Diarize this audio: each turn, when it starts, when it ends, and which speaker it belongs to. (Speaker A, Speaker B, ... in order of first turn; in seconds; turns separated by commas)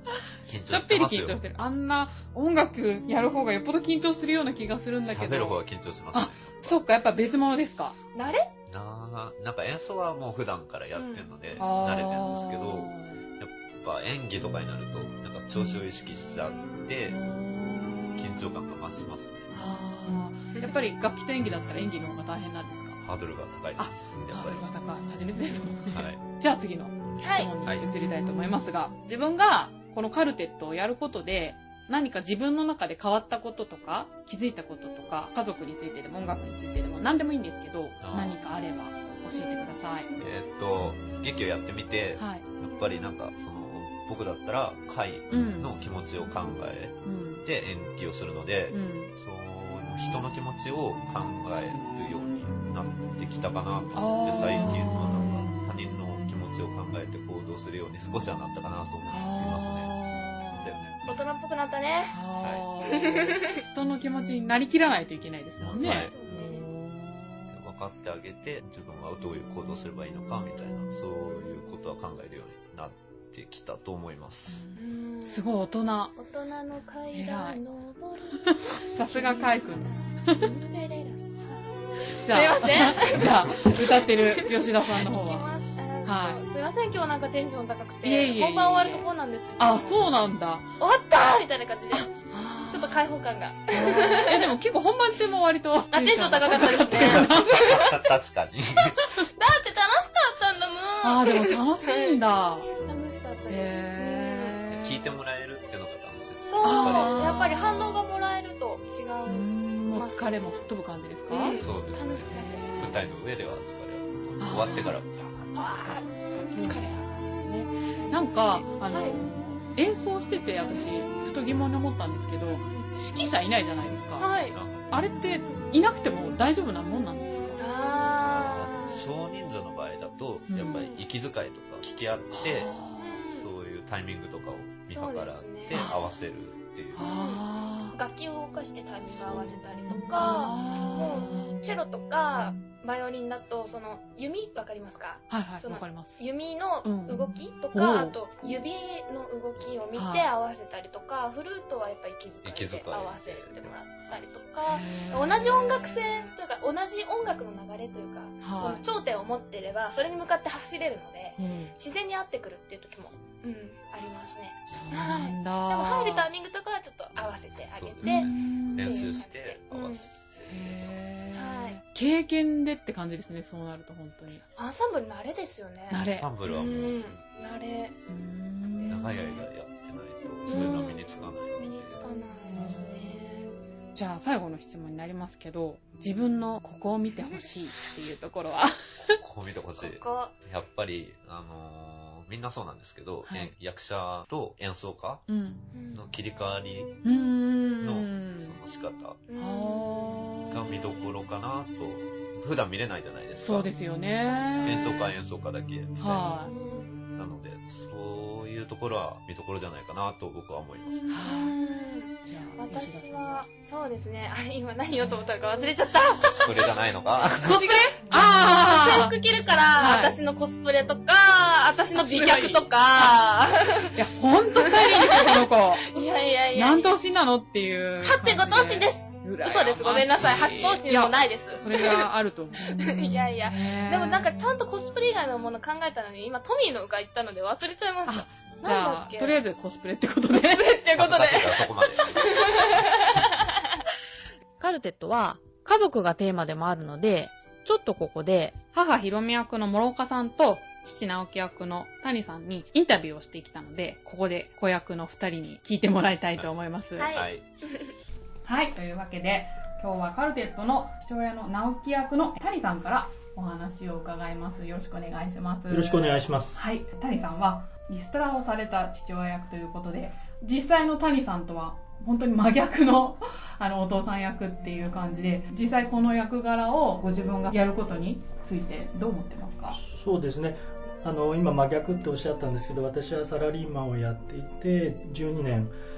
Speaker A: 0.5-1.4, Speaker B: 0.7-5.6, Speaker A: 5.0-6.8, Speaker B: 6.1-8.0, Speaker C: 8.1-8.5, Speaker A: 8.7-17.2, Speaker C: 10.9-11.4, Speaker B: 11.6-13.2, Speaker B: 17.1-18.4, Speaker A: 18.2-19.5, Speaker B: 19.5-23.0, Speaker A: 23.0-24.7, Speaker B: 23.8-40.1, Speaker A: 25.9-26.2, Speaker A: 27.1-27.9, Speaker C: 27.2-27.5, Speaker A: 38.0-38.4, Speaker A: 40.2-59.9, Speaker B: 42.2-42.5, Speaker B: 45.3-45.7, Speaker B: 47.0-47.5, Speaker B: 48.7-49.1, Speaker B: 53.9-55.7, Speaker B: 59.1-60.7, Speaker A: 60.6-61.2, Speaker C: 61.0-62.2, Speaker B: 62.1-67.6, Speaker A: 62.4-62.7, Speaker C: 63.0-63.6, Speaker A: 65.6-66.5, Speaker C: 65.8-66.7, Speaker A: 67.5-74.7, Speaker B: 74.5-76.1, Speaker C: 74.8-75.5, Speaker C: 76.2-78.5, Speaker B: 77.1-77.6, Speaker B: 78.5-80.5, Speaker C: 79.0-90.2, Speaker B: 82.2-85.5, Speaker B: 86.0-86.4, Speaker B: 88.0-89.1, Speaker B: 89.6-90.7, Speaker C: 90.8-92.1, Speaker B: 91.9-93.0, Speaker C: 92.7-94.5, Speaker B: 93.7-97.9, Speaker C: 95.9-98.0, Speaker A: 96.9-99.0, Speaker C: 99.3-102.2, Speaker B: 101.0-102.7, Speaker C: 102.8-104.6, Speaker B: 103.5-105.1, Speaker A: 104.7-107.7, Speaker C: 106.5-110.6, Speaker B: 106.6-107.8, Speaker B: 109.3-111.6, Speaker C: 111.3-113.2, Speaker A: 111.6-115.1, Speaker B: 112.3-112.8, Speaker B: 114.4-115.0, Speaker C: 115.5-119.2, Speaker B: 116.5-117.0, Speaker B: 118.1-124.3, Speaker C: 124.2-124.6, Speaker A: 124.5-124.9, Speaker B: 124.9-127.6, Speaker C: 127.6-129.1, Speaker A: 128.2-132.8, Speaker B: 130.5-130.9, Speaker C: 130.8-131.0, Speaker B: 132.3-133.2, Speaker C: 133.0-133.5, Speaker A: 133.3-137.1, Speaker C: 134.9-135.9, Speaker C: 136.9-170.1, Speaker B: 137.0-138.0, Speaker A: 139.2-139.6, Speaker B: 140.2-141.6, Speaker B: 145.3-146.2, Speaker B: 146.8-148.5, Speaker B: 149.9-150.3, Speaker A: 152.4-153.7, Speaker B: 154.7-155.9, Speaker B: 158.4-158.8, Speaker B: 161.4-161.7, Speaker B: 164.7-166.3, Speaker A: 167.8-170.1, Speaker B: 168.0-169.2, Speaker B: 170.5-174.4, Speaker C: 171.3-171.8, Speaker C: 174.6-178.0, Speaker B: 175.9-176.3, Speaker A: 176.1-177.2, Speaker B: 178.1-179.4, Speaker C: 178.8-179.4, Speaker A: 178.9-182.0, Speaker C: 180.5-183.6, Speaker B: 180.5-180.9, Speaker B: 182.5-183.2, Speaker B: 183.9-189.2, Speaker A: 189.0-195.2, Speaker C: 189.8-190.3, Speaker B: 193.3-193.5, Speaker B: 195.3-195.7, Speaker C: 195.7-196.2, Speaker A: 195.9-197.0, Speaker B: 197.0-198.6, Speaker A: 197.8-199.2, Speaker C: 199.3-200.2, Speaker B: 199.4-200.7, Speaker A: 200.5-203.7, Speaker B: 203.4-204.9, Speaker C: 204.3-205.1, Speaker A: 204.6-206.3, Speaker B: 206.0-206.5, Speaker C: 206.4-207.0, Speaker A: 207.1-211.1, Speaker C: 211.1-224.0, Speaker B: 211.1-211.6, Speaker B: 212.2-213.5, Speaker A: 216.2-217.6, Speaker B: 217.4-219.1, Speaker B: 219.8-220.2, Speaker B: 221.9-223.2, Speaker B: 223.9-234.3, Speaker C: 224.6-226.9, Speaker C: 228.0-232.1, Speaker C: 232.6-239.4, Speaker B: 238.1-240.7, Speaker C: 240.3-243.4, Speaker A: 240.9-242.2, Speaker D: 244.6-248.6, Speaker B: 248.7-257.1, Speaker C: 257.0-257.9, Speaker A: 257.1-257.5, Speaker B: 258.4-279.8, Speaker E: 265.7-266.6, Speaker E: 279.8-285.7